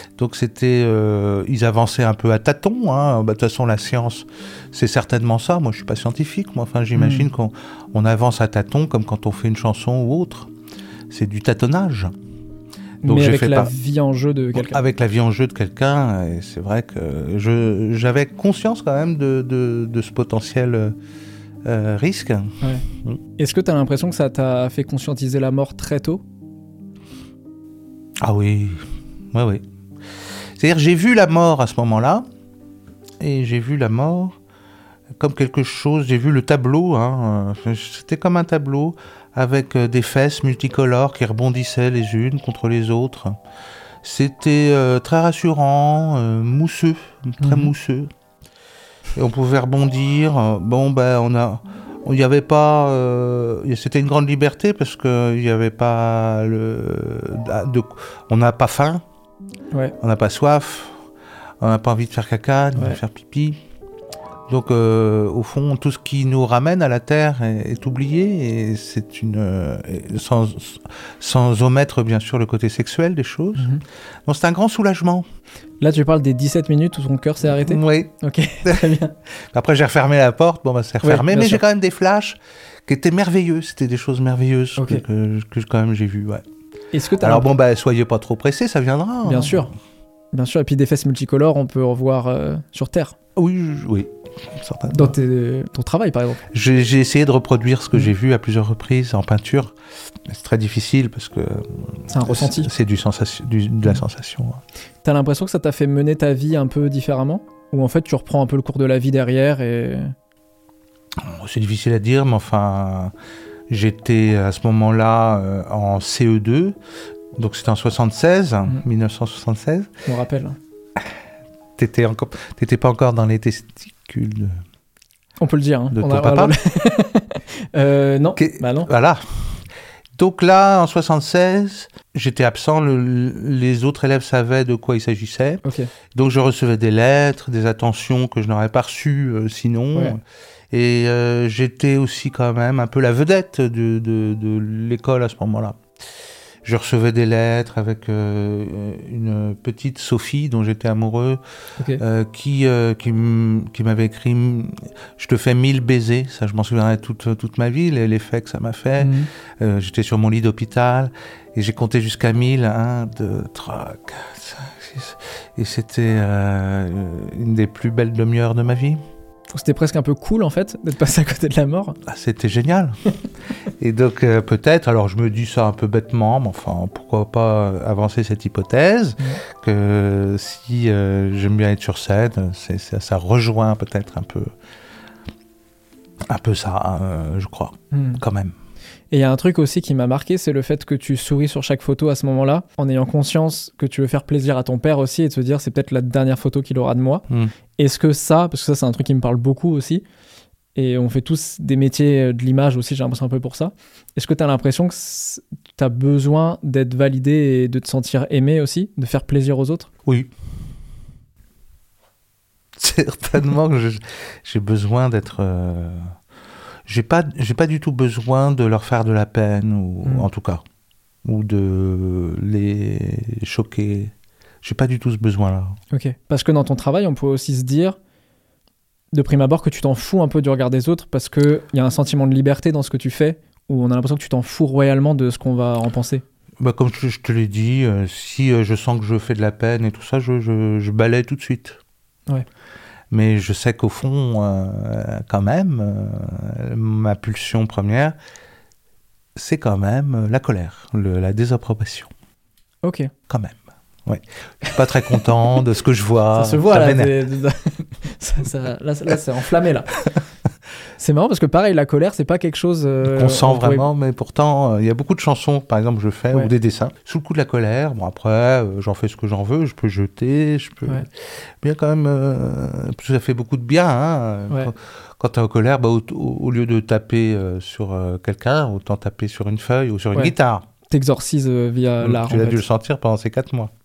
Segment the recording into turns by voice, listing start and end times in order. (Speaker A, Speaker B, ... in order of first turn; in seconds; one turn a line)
Speaker A: 0.2-10.5
Speaker B: 7.0-7.3
Speaker A: 11.1-12.1
Speaker B: 13.0-14.8
Speaker A: 13.1-13.7
Speaker A: 14.6-20.9
Speaker A: 21.6-23.2
Speaker B: 23.4-26.2
Speaker A: 28.2-29.6
Speaker A: 30.6-32.2
Speaker A: 33.2-34.4
Speaker A: 35.2-43.4
Speaker A: 44.0-48.1
Speaker B: 47.4-47.7
Speaker A: 49.1-59.0
Speaker A: 60.0-61.0
Speaker A: 61.6-63.6
Speaker A: 64.5-73.7
Speaker B: 73.6-73.8
Speaker A: 74.2-75.2
Speaker B: 75.8-79.1
Speaker A: 77.5-78.1
Speaker A: 78.6-79.0
Speaker A: 79.5-86.4
Speaker B: 81.0-81.6
Speaker B: 84.8-85.0
Speaker B: 86.9-87.5
Speaker A: 87.2-89.7
Speaker B: 89.2-89.7
Speaker B: 90.3-93.2
Speaker A: 93.4-95.1
Speaker B: 94.9-96.5
Speaker A: 96.5-99.7
Speaker A: 100.2-104.6
Speaker B: 102.1-102.7
Speaker B: 105.0-110.1
Speaker A: 111.2-113.1
Speaker A: 113.7-116.8
Speaker A: 117.4-119.9
Speaker B: 120.1-120.6
Speaker A: 121.8-124.6
Speaker B: 125.4-128.9
Speaker A: 125.9-126.6
Speaker A: 128.4-129.6
Speaker A: 130.2-145.8
Speaker B: 135.6-135.9
Speaker A: 146.6-151.4
Speaker B: 151.8-152.0
Speaker A: 152.0-169.0
Speaker B: 159.0-159.3
Speaker B: 169.5-172.0
Speaker A: 172.0-173.0
Speaker A: 173.8-184.5
Speaker A: 186.3-188.6
Speaker B: 187.9-188.2
Speaker B: 189.1-197.2
Speaker B: 197.8-200.0
Speaker B: 200.8-209.9
Speaker A: 210.1-210.3
Speaker A: 212.8-216.1
Speaker A: 216.9-220.6
Speaker A: 221.2-225.8
Speaker B: 225.9-228.0
Speaker B: 229.1-236.2
Speaker A: 236.6-241.8
Speaker A: 243.1-248.1
Speaker A: 249.4-252.1
Speaker B: 252.8-253.1
Speaker A: 253.3-257.1
Speaker B: 256.3-260.0
Speaker B: 261.0-263.9
Speaker A: 263.1-271.1
Speaker A: 271.6-280.6
Speaker B: 280.9-282.6
Speaker A: 282.0-283.7